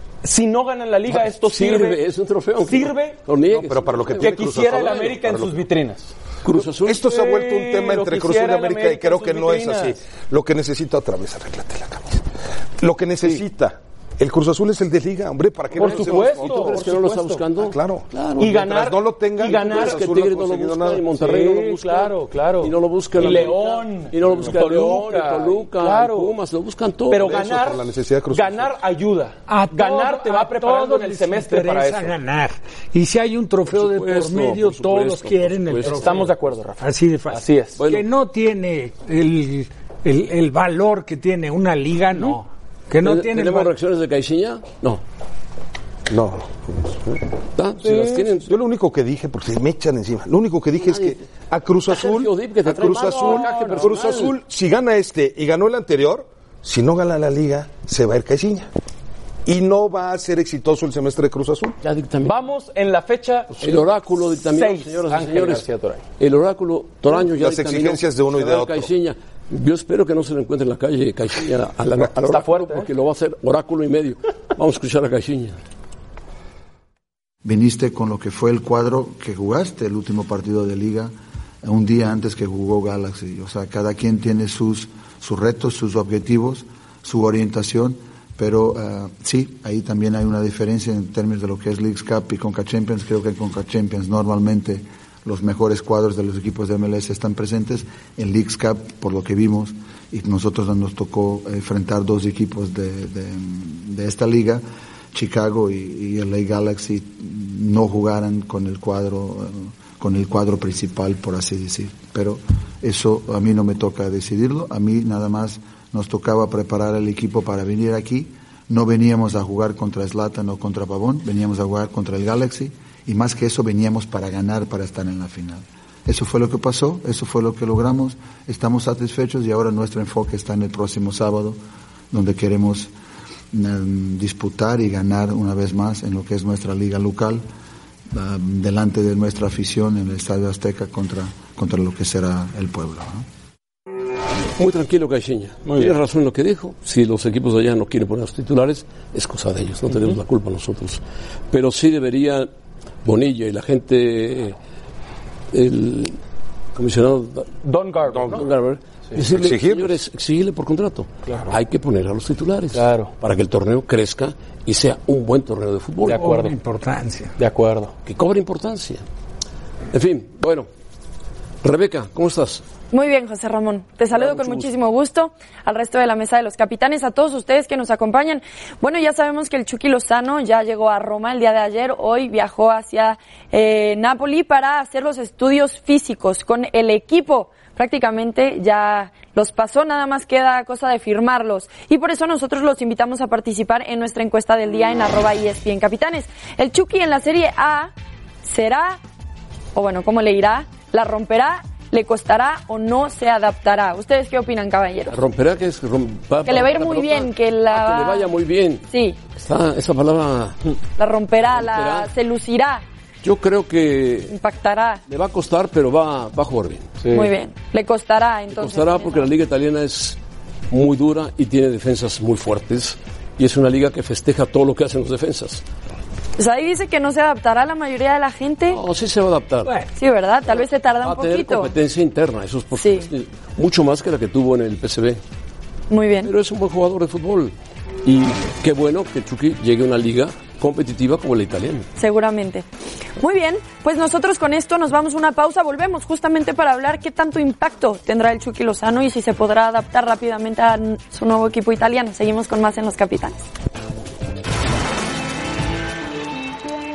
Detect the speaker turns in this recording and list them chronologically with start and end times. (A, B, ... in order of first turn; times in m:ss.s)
0:00.2-0:02.0 A
0:01.1-0:05.1 B
0:02.6-0:03.2 A
0:03.5-0:05.6 C
0:04.2-0:06.1 A
0:06.4-0:07.0 B
0:06.6-0:12.1 C
0:06.9-0:10.0 A
0:12.8-0:17.0 C
0:15.7-0:17.4 A
0:15.7-0:18.6 B
0:17.5-0:21.0 C
0:18.4-0:20.0 A
0:19.4-0:27.4 B
0:21.2-0:26.4 A
0:24.3-0:24.5 C
0:27.1-0:32.2 A
0:27.2-0:28.7 C
0:29.5-0:43.7 D
0:33.7-0:36.3 B
0:35.8-0:37.8 A
0:37.8-0:38.0 B
0:43.0-0:45.0 B
0:46.1-0:47.2 C
0:47.6-0:48.5 B
0:47.8-0:48.2 A
0:48.4-0:58.7 C
0:50.8-0:51.2 B
0:51.9-0:54.3 B
0:53.0-0:53.8 A
0:59.4-1:01.8 C
1:01.8-1:02.4 B
1:02.2-1:06.0 A
1:03.6-1:05.6 B
1:06.2-1:15.6 B
1:07.1-1:08.9 C
1:12.3-1:12.9 A
1:17.4-2:11.6 E
2:12.1-2:12.9 E
2:13.5-2:17.4 E
2:18.1-2:23.2 E
2:24.6-2:32.5 B
2:25.7-2:25.9 A
2:33.0-2:34.6 B
2:35.5-2:36.2 B
2:36.7-2:37.5 B
2:37.6-2:38.4 A
2:38.1-2:38.4 C
2:38.2-2:46.2 B
2:39.3-2:40.0 C
2:42.7-2:43.1 A
2:46.1-2:46.6 A
2:46.1-2:47.3 D
2:47.4-2:47.9 A
2:48.0-2:49.0 B
2:49.9-2:50.7 B
2:51.6-2:52.6 B
2:52.9-3:17.9 F
2:54.1-2:54.7 B
3:18.4-3:19.0 F
3:19.7-3:25.1 F
3:25.1-3:30.7 B
3:26.4-3:28.3 F
3:28.9-3:29.2 F
3:31.0-3:32.8 F
3:31.4-3:32.1 B
3:33.2-3:34.3 B
3:34.3-3:35.0 F
3:35.1-3:37.0 B
3:37.0-3:37.3 A
3:37.1-3:39.3 F
3:38.5-3:40.2 B
3:40.7-3:45.6 B
3:46.4-3:48.8 F
3:48.7-3:49.7 B
3:50.0-3:51.7 F
3:50.5-3:55.2 B
3:52.8-3:53.1 F
3:55.9-3:56.3 F
3:56.2-4:01.9 B
4:02.0-4:02.6 F
4:03.2-4:13.4 F